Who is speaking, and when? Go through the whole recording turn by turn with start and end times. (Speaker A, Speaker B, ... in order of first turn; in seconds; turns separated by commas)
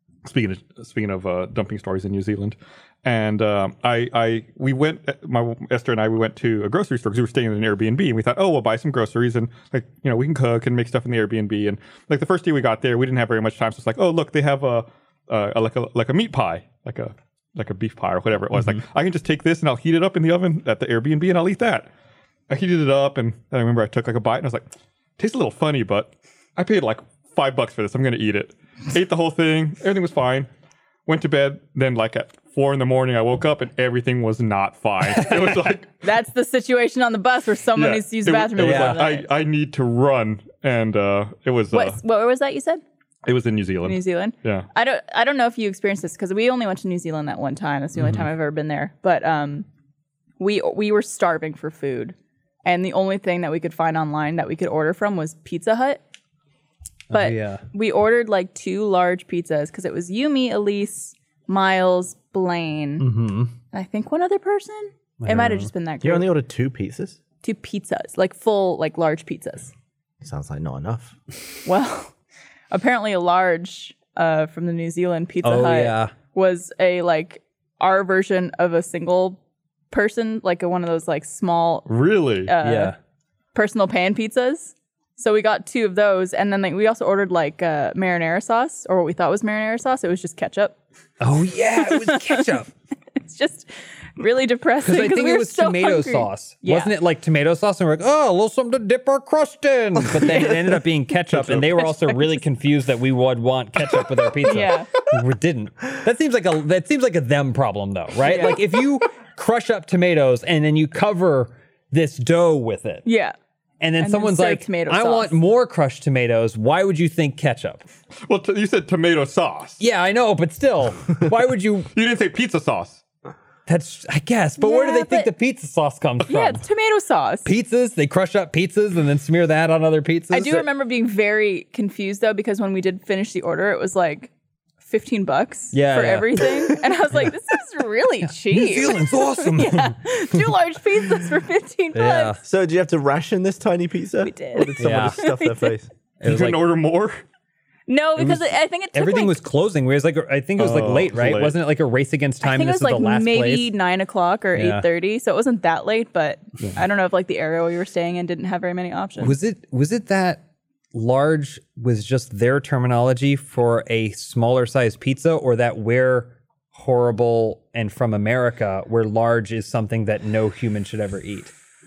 Speaker A: 0.2-21.9, Speaker A: 22.5-24.6, Speaker A: 25.2-30.5, Speaker A: 31.1-35.9, Speaker B: 35.2-35.5, Speaker C: 36.0-39.3, Speaker A: 37.8-42.0, Speaker B: 38.6-39.1, Speaker C: 41.7-42.8, Speaker A: 43.2-44.7, Speaker C: 43.8-49.7, Speaker C: 50.4-56.0, Speaker B: 57.1-57.6, Speaker C: 57.1-63.1, Speaker B: 63.0-63.5, Speaker C: 63.7-66.3, Speaker B: 65.2-65.7, Speaker D: 66.0-67.2, Speaker C: 67.4-69.7, Speaker D: 70.2-71.2, Speaker C: 71.7-72.1, Speaker C: 72.7-79.4, Speaker B: 75.4-76.1, Speaker C: 79.9-81.9, Speaker A: 81.9-82.5, Speaker C: 82.5-83.0, Speaker B: 82.6-83.0, Speaker C: 83.5-90.8, Speaker B: 91.2-92.7, Speaker C: 91.8-92.5, Speaker C: 93.2-96.9, Speaker B: 94.8-113.1, Speaker C: 102.0-102.3, Speaker C: 104.4-104.9, Speaker C: 108.3-108.6, Speaker C: 113.0-113.3, Speaker B: 113.8-117.8, Speaker C: 114.0-115.4, Speaker A: 118.3-119.8, Speaker B: 119.8-121.9, Speaker A: 121.9-123.0, Speaker B: 123.7-126.6, Speaker C: 124.6-125.3, Speaker C: 126.2-127.5, Speaker B: 127.5-130.7, Speaker C: 130.3-134.3, Speaker C: 134.8-142.4, Speaker B: 135.7-136.8, Speaker B: 138.4-140.0, Speaker B: 141.9-142.4, Speaker D: 142.4-145.9, Speaker C: 144.2-145.7, Speaker B: 144.8-145.3, Speaker B: 146.2-146.7, Speaker A: 146.2-147.2, Speaker C: 147.9-149.4, Speaker B: 148.2-153.7, Speaker A: 150.6-151.6, Speaker C: 152.4-159.4, Speaker B: 154.6-154.9, Speaker B: 159.2-160.4, Speaker B: 160.9-171.5